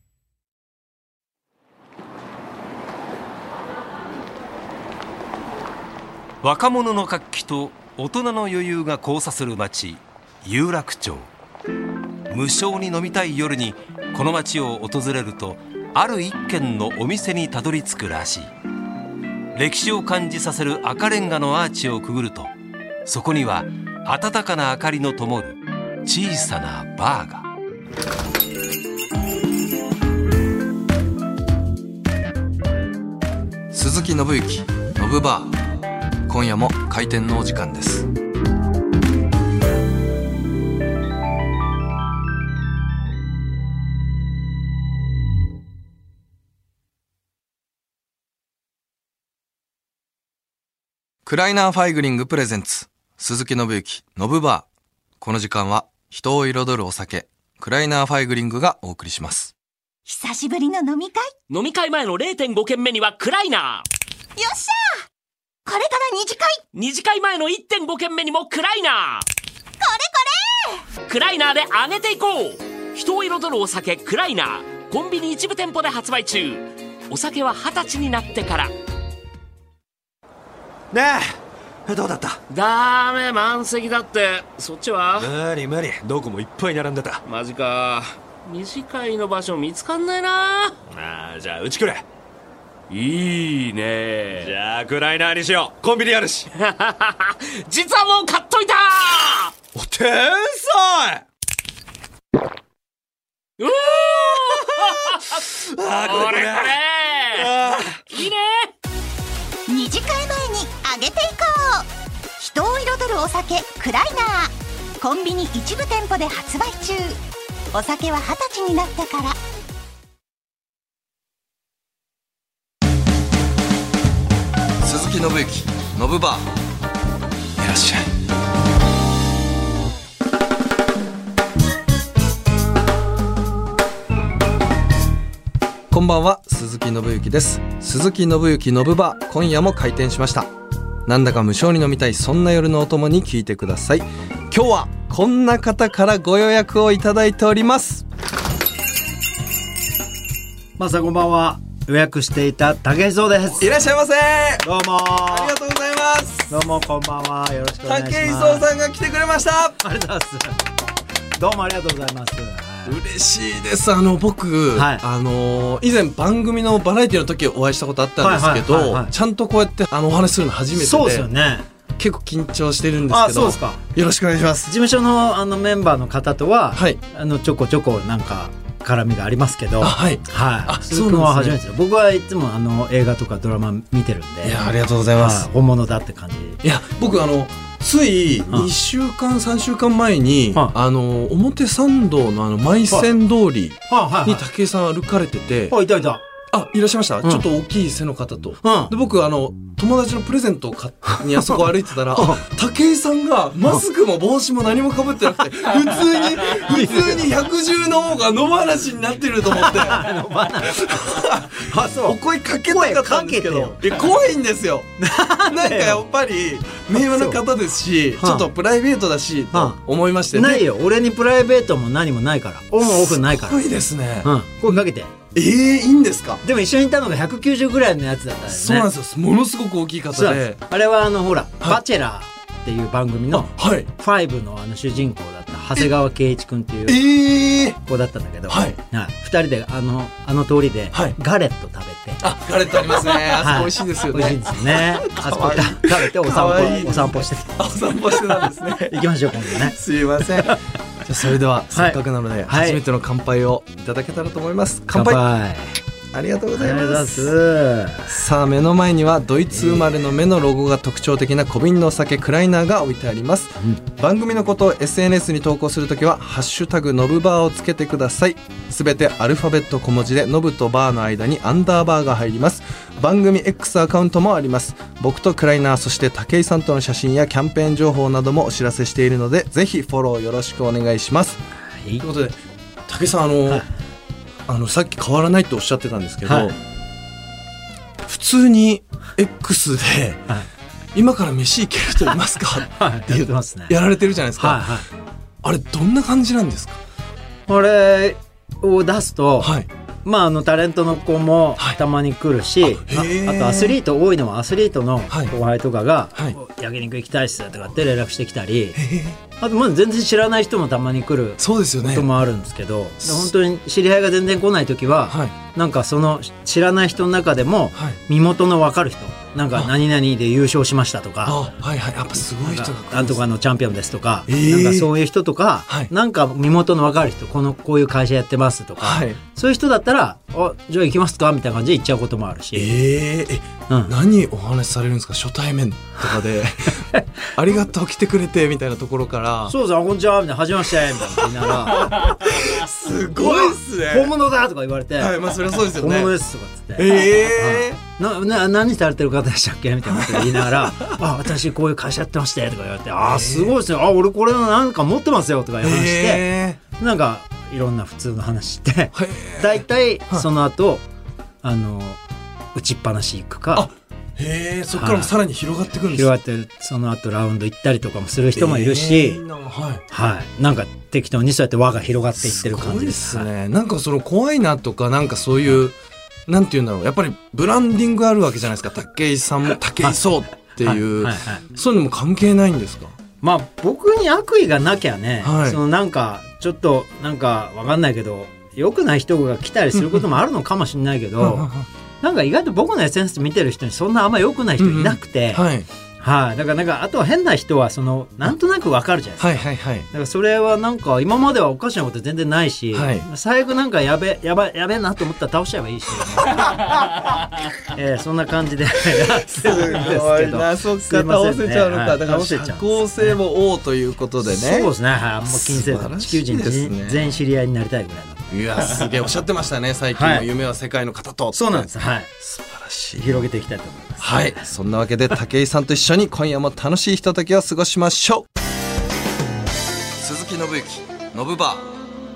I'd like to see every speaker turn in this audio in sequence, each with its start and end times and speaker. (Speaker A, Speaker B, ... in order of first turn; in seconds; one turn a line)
Speaker A: 6.4-11.3
Speaker A: 12.3-18.5
Speaker A: 19.5-22.5
Speaker A: 23.1-27.5
Speaker B: 33.7-35.6
Speaker B: 36.3-38.1
Speaker B: 51.2-54.7
Speaker B: 55.2-59.5
Speaker C: 60.0-61.3
Speaker D: 61.5-63.8
Speaker C: 64.4-65.0
Speaker C: 65.7-66.6
Speaker D: 66.7-69.3
Speaker C: 69.8-70.8
Speaker D: 71.1-78.7
Speaker E: 80.9-82.4
Speaker D: 82.5-85.3
Speaker E: 85.2-87.2
Speaker D: 87.2-90.8
Speaker E: 90.9-92.0
Speaker D: 92.9-94.5
Speaker E: 94.4-96.5
Speaker D: 96.5-99.5
Speaker E: 99.7-101.2
Speaker D: 103.6-105.4
Speaker E: 104.5-104.8
Speaker E: 105.7-106.8
Speaker D: 106.0-107.5
Speaker E: 107.3-108.0
Speaker D: 108.1-108.7
Speaker C: 109.7-111.9
Speaker C: 112.4-117.2
Speaker C: 117.7-119.4
Speaker B: 124.8-126.5
Speaker B: 127.6-128.3
Speaker B: 135.9-140.5
Speaker B: 141.1-148.0
Speaker F: 150.8-153.7
Speaker B: 153.6-154.7
Speaker F: 154.6-155.5
Speaker B: 155.3-156.5
Speaker F: 156.5-158.6
Speaker B: 157.8-159.8
Speaker F: 159.8-160.6
Speaker F: 161.4-163.0
Speaker B: 162.8-171.3
Speaker F: 164.7-165.0
Speaker F: 168.2-169.1
Speaker F: 170.7-171.7
Speaker B: 172.0-174.7
Speaker F: 173.1-173.8
Speaker F: 174.7-184.6
Speaker B: 179.8-181.6
Speaker B: 184.4-185.5
Speaker F: 185.2-186.6
Speaker B: 186.6-195.8
Speaker F: 193.9-194.4
Speaker F: 195.7-196.2
Speaker B: 196.5-210.1
Speaker F: 198.6-198.9
Speaker F: 206.6-207.3
Speaker F: 209.5-212.2
Speaker B: 210.6-214.9
Speaker F: 212.7-213.8
Speaker F: 215.0-216.1
Speaker B: 215.5-220.7
Speaker F: 216.9-217.4
Speaker F: 218.2-218.5
Speaker F: 219.5-219.8
Speaker F: 220.3-223.6
Speaker B: 222.8-224.8
Speaker F: 224.2-225.1
Speaker B: 225.3-226.4
Speaker F: 226.4-228.9
Speaker B: 228.5-230.6
Speaker F: 230.1-237.0
Speaker B: 233.3-233.9
Speaker B: 236.8-237.8
Speaker F: 237.8-242.2
Speaker B: 238.5-238.8
Speaker B: 242.2-255.2
Speaker F: 242.9-247.6
Speaker F: 248.2-249.8
Speaker F: 251.7-252.8
Speaker F: 254.9-255.7
Speaker B: 256.1-257.3
Speaker F: 256.5-258.1
Speaker B: 258.1-281.4
Speaker F: 259.5-259.9
Speaker F: 281.8-282.0
Speaker B: 282.0-283.6
Speaker B: 284.4-286.6
Speaker F: 286.2-286.5
Speaker B: 288.0-290.2
Speaker B: 290.9-294.8
Speaker F: 292.6-293.8
Speaker F: 294.4-294.9
Speaker B: 295.4-296.8
Speaker F: 297.5-299.5
Speaker B: 299.4-299.7
Speaker F: 300.0-308.8
Speaker B: 302.6-303.8
Speaker B: 308.7-309.2
Speaker F: 309.4-321.4
Speaker B: 311.4-312.1
Speaker B: 315.1-315.3
Speaker B: 321.2-323.2
Speaker F: 322.4-332.7
Speaker B: 324.3-324.9
Speaker B: 328.8-329.2
Speaker B: 332.5-339.5
Speaker F: 333.7-333.9
Speaker F: 339.5-342.1
Speaker B: 341.1-344.1
Speaker F: 343.1-345.2
Speaker B: 345.0-346.1
Speaker F: 345.7-360.8
Speaker B: 346.8-347.8
Speaker B: 349.9-351.0
Speaker B: 353.0-353.5
Speaker B: 355.6-356.6
Speaker B: 358.9-360.2
Speaker F: 361.4-362.0
Speaker F: 362.5-363.7
Speaker B: 363.5-366.1
Speaker F: 364.7-365.1
Speaker F: 365.9-369.2
Speaker B: 368.3-369.8
Speaker F: 369.9-373.3
Speaker B: 372.2-382.9
Speaker F: 380.6-381.4
Speaker F: 383.2-391.5
Speaker B: 385.2-385.6
Speaker B: 389.7-390.1
Speaker B: 391.2-391.7
Speaker F: 392.0-395.4
Speaker B: 394.6-395.7
Speaker F: 396.0-406.6
Speaker B: 399.2-399.9
Speaker B: 402.7-403.1
Speaker B: 406.3-406.8
Speaker F: 407.7-413.1
Speaker B: 408.9-414.7
Speaker F: 414.2-418.4
Speaker B: 415.3-417.0
Speaker B: 418.3-423.2
Speaker F: 419.9-420.3
Speaker F: 421.3-422.1
Speaker F: 423.0-424.5
Speaker B: 424.0-428.3
Speaker B: 430.0-431.7